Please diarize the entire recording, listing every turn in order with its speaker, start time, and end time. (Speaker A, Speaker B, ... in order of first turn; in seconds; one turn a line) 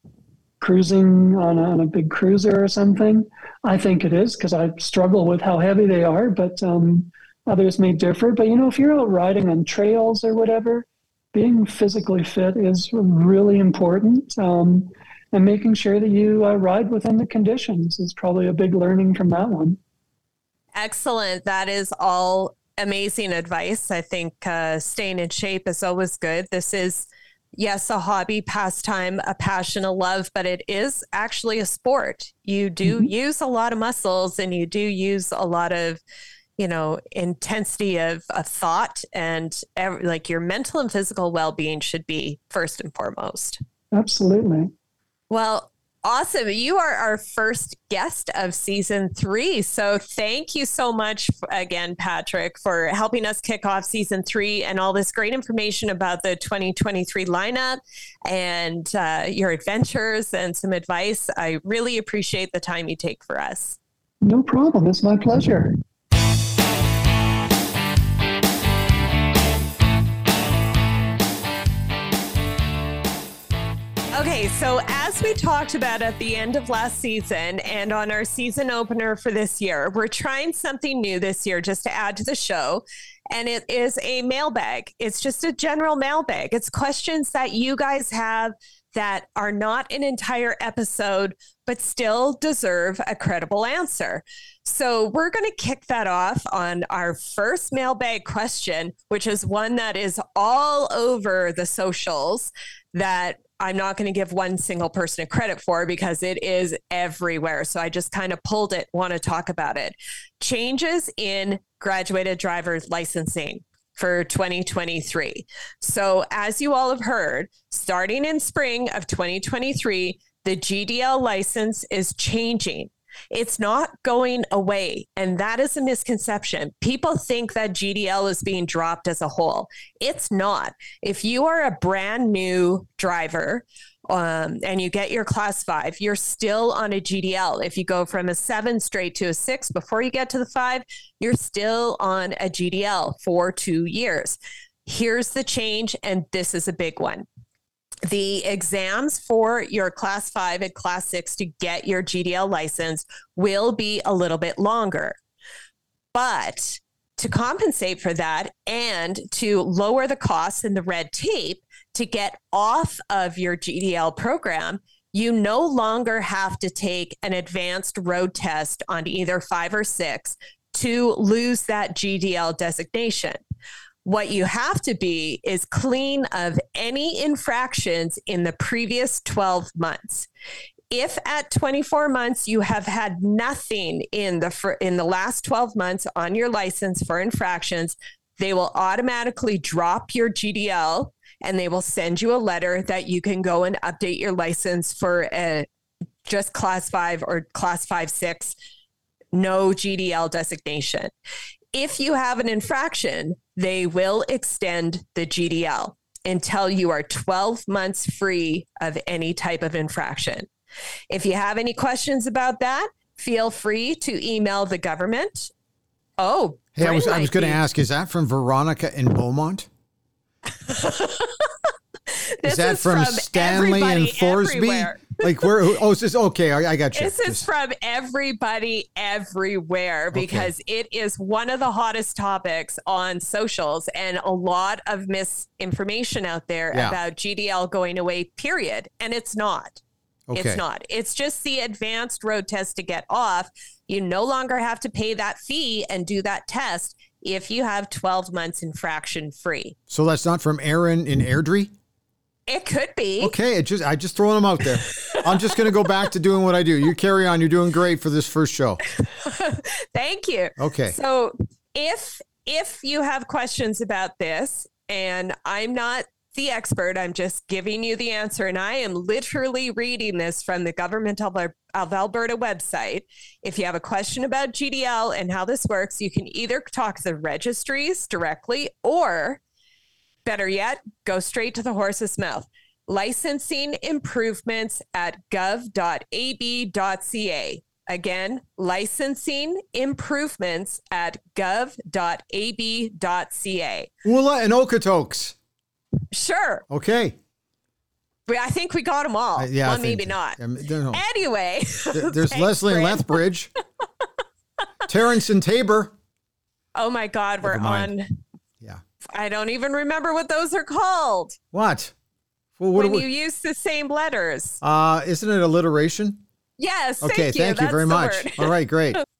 Speaker A: 0.6-19.8
Speaker B: 20.8-36.0
Speaker A: 32.8-33.1
Speaker B: 36.6-43.6
Speaker A: 43.9-44.7
Speaker B: 45.3-63.8
Speaker A: 64.2-65.8
Speaker B: 74.1-147.2
Speaker B: 148.1-155.2
Speaker B: 156.1-173.4
Speaker B: 174.0-180.3
Speaker B: 180.9-195.7
Speaker B: 196.2-198.5
Speaker B: 199.3-201.1
Speaker B: 201.7-210.5
Speaker B: 211.1-215.5
Speaker B: 216.2-217.6
Speaker C: 216.8-219.7
Speaker B: 220.5-225.5
Speaker C: 222.4-227.5
Speaker B: 226.9-239.8
Speaker C: 230.1-230.5
Speaker C: 240.3-240.6
Speaker B: 240.3-249.8
Speaker C: 249.9-251.7
Speaker B: 252.5-253.3
Speaker C: 253.2-258.8
Speaker B: 254.8-255.6
Speaker B: 259.0-279.4
Speaker C: 260.6-260.9
Speaker B: 280.2-293.9
Speaker C: 294.0-295.4
Speaker B: 296.1-296.6
Speaker C: 296.7-297.1
Speaker B: 298.3-303.2
Speaker C: 299.4-301.0
Speaker C: 301.9-303.5
Speaker C: 304.9-305.9
Speaker B: 306.7-308.2
Speaker C: 307.4-307.9
Speaker B: 309.1-311.4
Speaker C: 311.5-311.9
Speaker C: 312.6-313.1
Speaker B: 312.8-314.6
Speaker C: 314.6-316.2
Speaker B: 316.6-318.6
Speaker C: 317.0-319.0